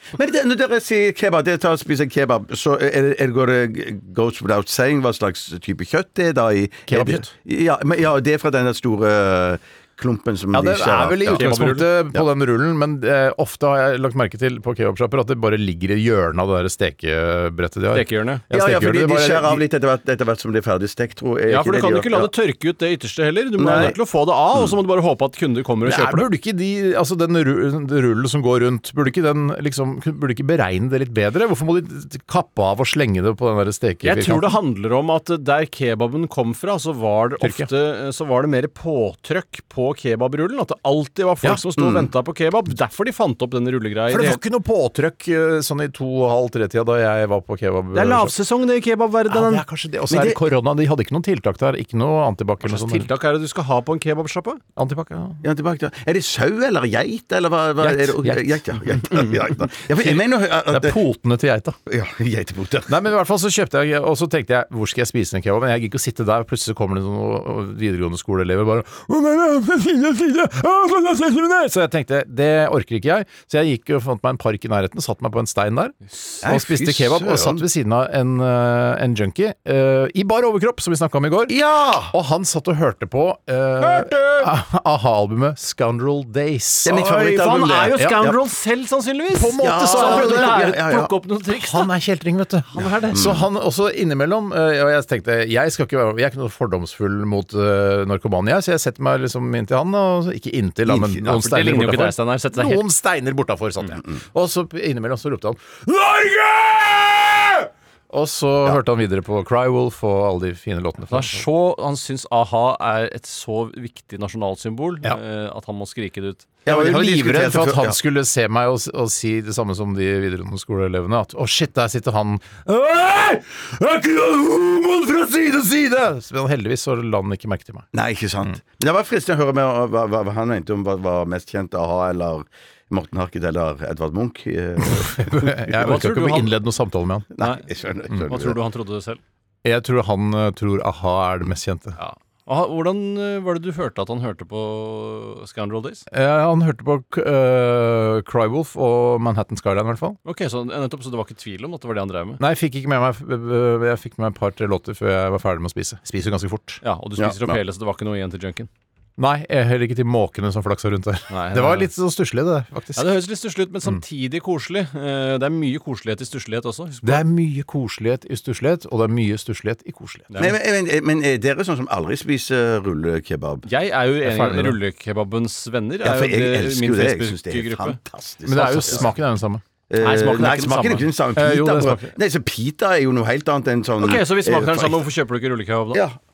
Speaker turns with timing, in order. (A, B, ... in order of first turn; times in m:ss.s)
0:00.1-0:11.5 A
0:06.9-0:07.3 B
0:10.5-0:19.6 B
0:11.3-0:11.9 C
0:17.9-0:18.4 C
0:18.5-0:22.3 A
0:21.5-0:26.2 C
0:23.6-0:24.0 A
0:25.8-0:34.6 B
0:34.0-0:44.4 C
0:37.4-0:37.7 B
0:41.8-0:42.1 A
0:44.1-0:48.3 B
0:47.9-0:49.6 C
0:49.3-0:53.1 B
0:50.1-0:50.4 A
0:52.6-0:54.6 C
0:54.8-0:55.4 B
0:55.4-1:01.0 A
0:57.8-1:01.8 B
1:01.9-1:03.0 A
1:02.9-1:21.6 B
1:16.4-1:17.6 A
1:21.5-1:22.1 A
1:22.1-1:27.0 B
1:23.8-1:24.5 C
1:26.8-1:28.4 A
1:26.9-1:31.9 C
1:29.3-1:30.6 B
1:29.6-1:31.1 A
1:31.5-1:51.5 B
1:32.7-1:33.3 C
1:33.1-1:33.4 A
1:40.9-1:41.4 A
1:41.3-1:42.8 C
1:51.1-1:56.5 C
1:56.6-1:58.0 A
1:56.7-2:07.9 B
2:07.9-2:15.6 A
2:14.8-2:17.3 B
2:15.7-2:16.5 C
2:17.4-2:18.6 A
2:17.4-2:19.2 C
2:19.6-2:22.0 B
2:22.0-2:26.0 C
2:26.1-2:30.2 B
2:30.2-2:32.4 C
2:32.4-2:36.8 B
2:36.8-2:38.7 C
2:37.2-2:37.6 A
2:39.2-2:43.1 B
2:41.3-2:41.9 C
2:43.0-2:47.2 C
2:47.0-2:50.3 B
2:50.4-2:53.7 A
2:53.7-2:58.0 C
2:54.2-2:54.8 B
2:56.0-2:59.1 A
2:58.4-2:59.6 B
2:59.9-3:05.0 A
3:00.0-3:01.1 C
3:01.4-3:02.1 B
3:04.0-3:06.0 C